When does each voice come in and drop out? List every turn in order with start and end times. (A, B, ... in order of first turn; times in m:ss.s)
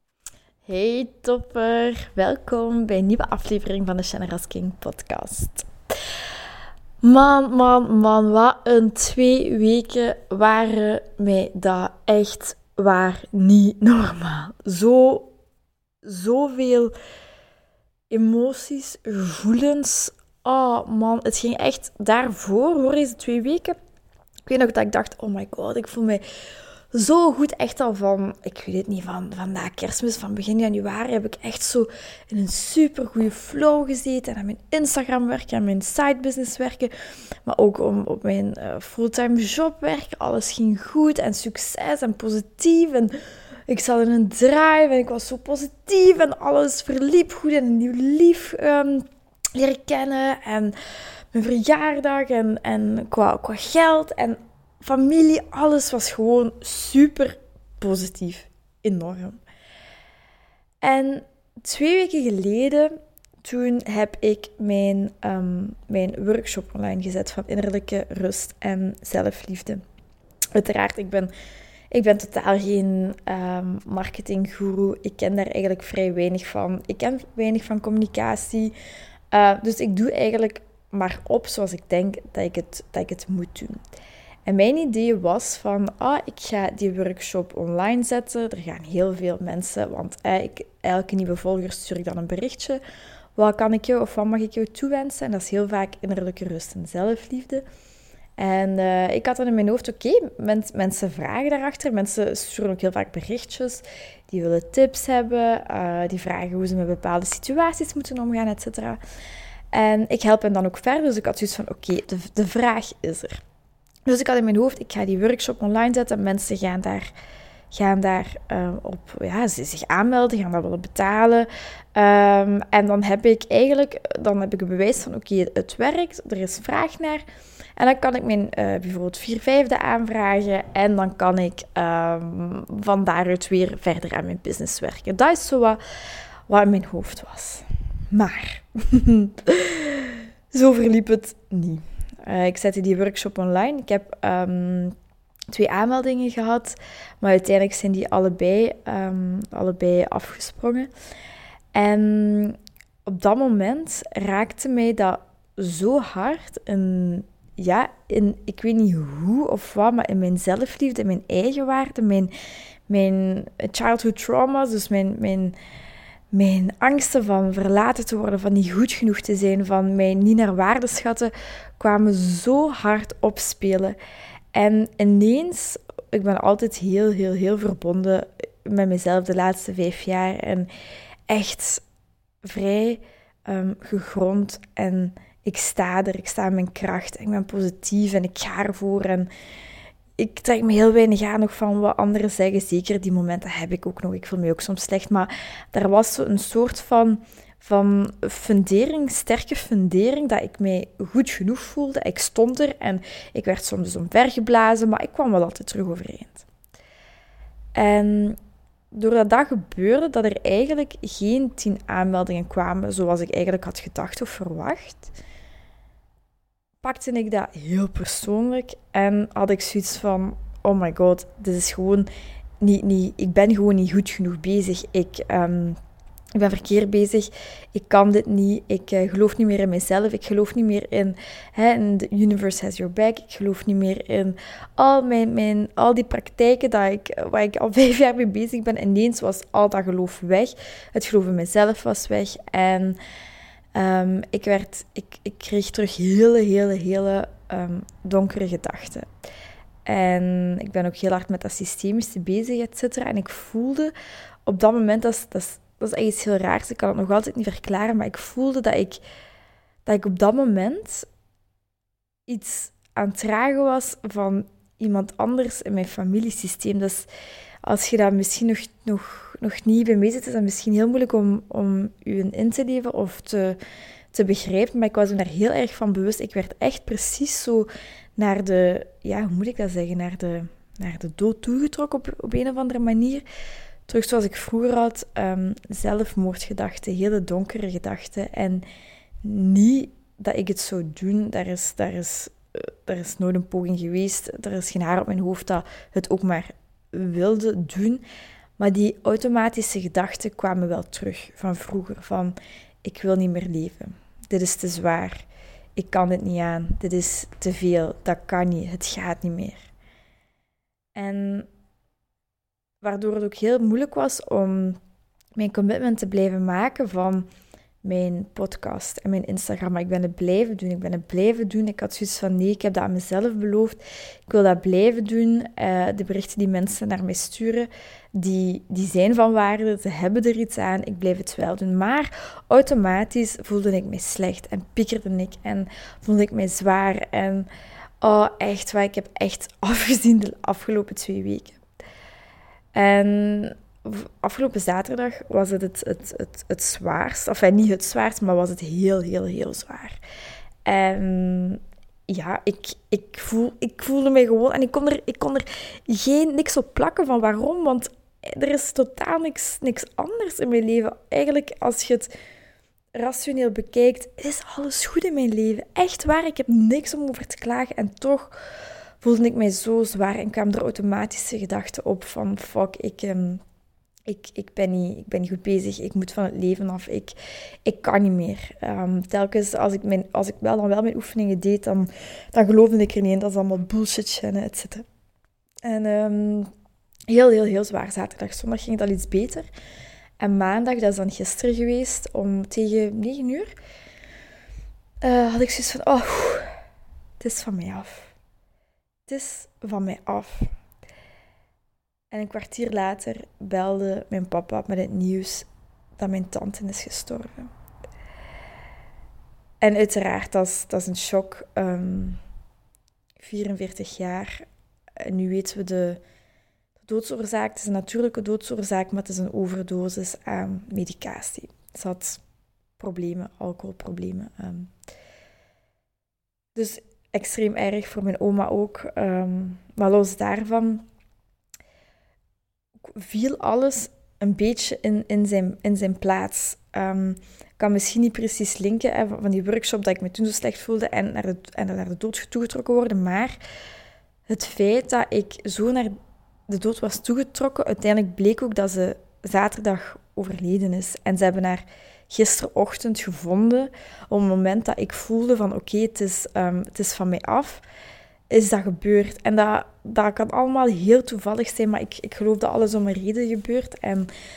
0:00.6-0:05.7 A
0:07.0-0:15.3 A
0:16.0-0:16.9 A
0:18.1-0:23.8 A
0:24.5-0:26.2 A
0:26.9-0:36.9 A
0:37.4-0:43.1 A
0:43.7-0:50.7 A
0:51.3-0:59.4 A
1:00.8-1:09.8 A
1:10.5-1:11.3 A
1:11.9-1:18.7 A
1:19.3-1:23.8 A
1:24.4-1:32.8 A
1:33.4-1:37.6 A
1:38.4-1:49.0 A
1:49.7-1:53.4 A
1:54.1-1:57.1 A
1:57.7-2:07.2 A
2:07.8-2:15.8 A
2:16.5-2:24.9 A
2:25.5-2:30.9 A
2:31.7-2:42.3 A
2:42.9-2:45.5 A
2:46.3-2:54.0 A
2:54.5-3:00.7 A
3:01.3-3:01.8 A
3:02.4-3:09.3 A
3:10.2-3:26.4 A
3:27.7-3:28.4 A
3:28.9-3:35.1 A
3:36.8-3:42.1 A
3:42.6-3:45.8 A
3:46.3-4:03.0 A
4:03.7-4:09.1 A
4:09.8-4:13.9 A
4:14.4-4:19.0 A
4:19.8-4:21.1 A
4:22.3-4:27.1 A
4:27.6-4:33.6 A
4:34.1-4:43.2 A
4:43.9-4:48.6 A
4:49.2-4:58.0 A
4:58.6-5:09.7 A
5:10.9-5:11.5 A
5:12.8-5:14.8 A
5:15.4-5:17.3 A
5:17.8-5:37.5 A
5:38.0-5:41.6 A
5:42.7-5:50.0 A
5:50.6-6:02.1 A
6:02.9-6:08.4 A
6:09.0-6:13.4 A
6:14.1-6:24.8 A
6:25.6-6:26.5 A
6:27.1-6:29.5 A
6:30.2-6:33.5 A
6:35.0-6:36.5 A
6:37.2-6:38.1 A
6:39.1-6:40.5 A
6:42.1-6:45.5 A
6:46.0-6:47.5 A
6:49.6-6:52.2 A
6:53.2-6:54.4 A
6:55.0-6:56.0 A
6:56.8-7:02.2 A
7:02.8-7:04.7 A
7:06.5-7:10.8 A
7:12.8-7:23.4 A
7:24.3-7:25.9 A
7:26.5-7:37.6 A
7:38.3-7:44.1 A